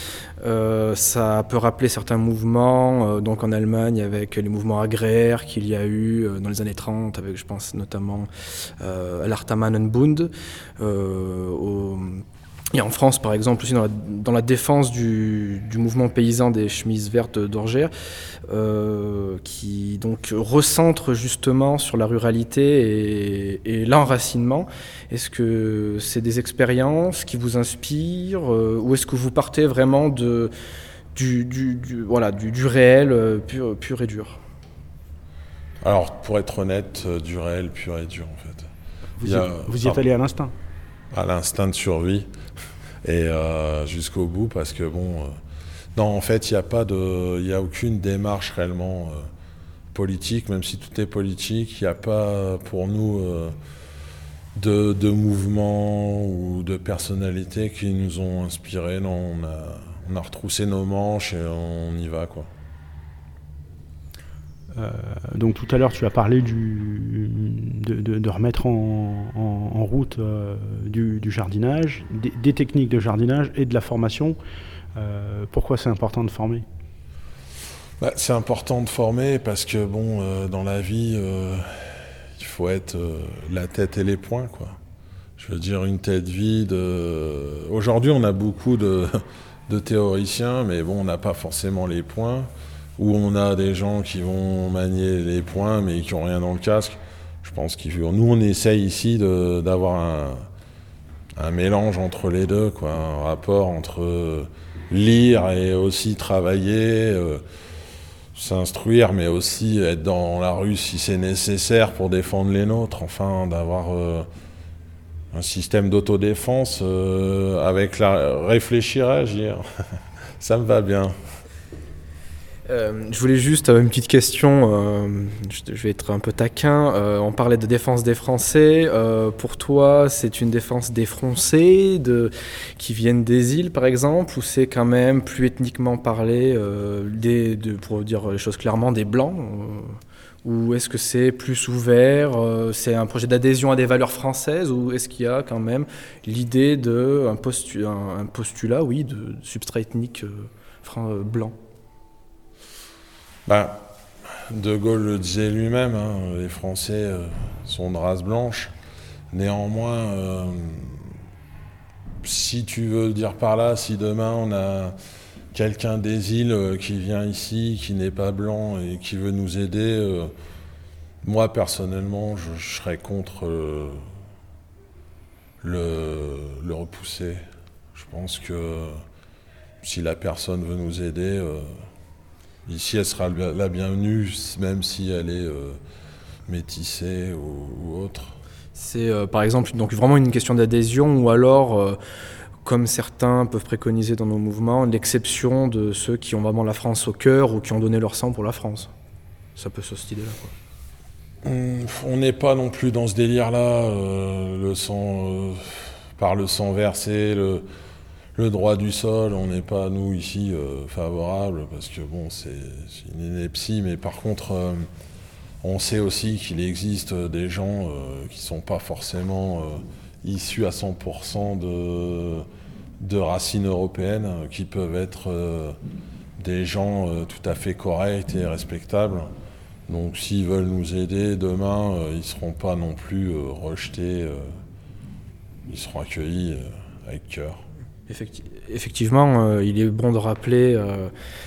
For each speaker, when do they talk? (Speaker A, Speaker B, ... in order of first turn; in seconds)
Speaker A: 0.4-17.9, 18.5-30.5, 31.1-34.4, 122.7-151.5, 188.7-192.0, 192.6-198.9, 199.6-200.5, 238.1-241.1
Speaker B: 35.8-38.7, 39.2-40.0, 41.1-42.3, 43.0-45.4, 45.9-49.3, 49.9-53.5, 54.5-62.5, 78.0-84.8, 85.4-100.5, 101.3-107.4, 108.3-114.3, 115.3-119.6, 120.4-121.2, 153.4-158.7, 159.3-161.1, 162.2-164.9, 165.5-170.3, 171.2-174.0, 175.6-179.0, 179.8-181.8, 182.7-185.8, 186.5-188.3, 201.4-207.7, 208.3-214.9, 215.6-222.5, 223.0-225.8, 226.4-229.3, 229.9-234.6, 235.7-237.6
Speaker C: 39.2-40.5, 64.7-74.4, 75.0-76.6